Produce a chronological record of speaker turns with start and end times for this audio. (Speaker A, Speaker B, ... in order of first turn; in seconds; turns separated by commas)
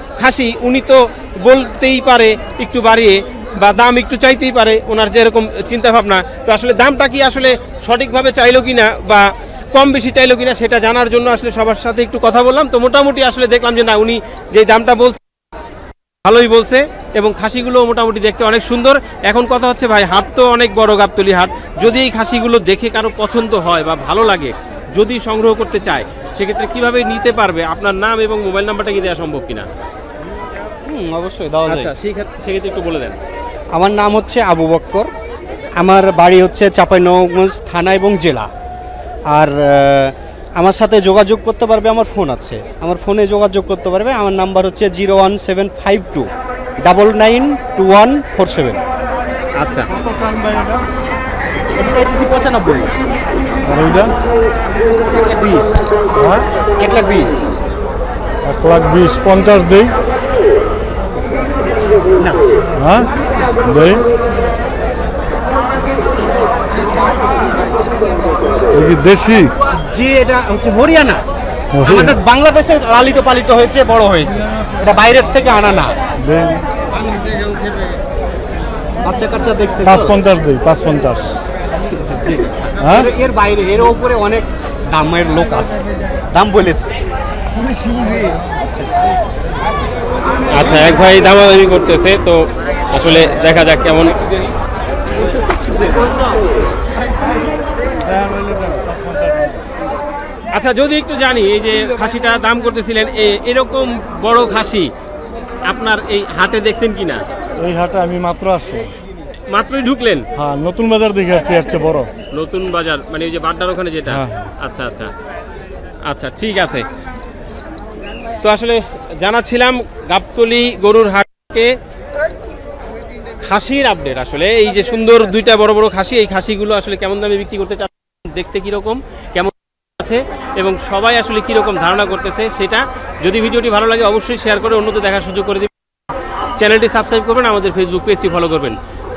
Speaker A: 0.2-15.2, Speaker A: 16.2-29.7, Speaker B: 30.9-31.9, Speaker A: 31.7-33.2, Speaker B: 33.7-35.1, Speaker B: 35.8-38.5, Speaker B: 39.3-46.3, Speaker B: 46.8-48.8, Speaker A: 49.6-49.9, Speaker C: 49.9-50.8, Speaker B: 51.8-52.9, Speaker C: 53.7-54.1, Speaker B: 54.9-55.9, Speaker C: 56.1-56.5, Speaker B: 56.8-57.5, Speaker C: 58.5-60.0, Speaker C: 62.8-63.1, Speaker C: 63.6-64.1, Speaker C: 68.7-69.5, Speaker B: 69.8-71.2, Speaker C: 71.8-72.2, Speaker B: 71.8-76.0, Speaker C: 76.2-76.6, Speaker B: 79.0-80.2, Speaker C: 79.8-81.4, Speaker C: 82.8-83.1, Speaker B: 82.9-85.8, Speaker B: 86.3-86.9, Speaker B: 88.6-88.9, Speaker A: 90.5-94.3, Speaker C: 98.0-99.6, Speaker A: 100.5-104.9, Speaker A: 105.7-107.2, Speaker C: 107.6-108.9, Speaker A: 109.5-110.3, Speaker C: 110.4-112.1, Speaker A: 112.3-115.1, Speaker C: 114.1-114.5, Speaker A: 116.1-116.9, Speaker A: 118.4-121.8, Speaker A: 123.4-135.7, Speaker A: 136.6-138.8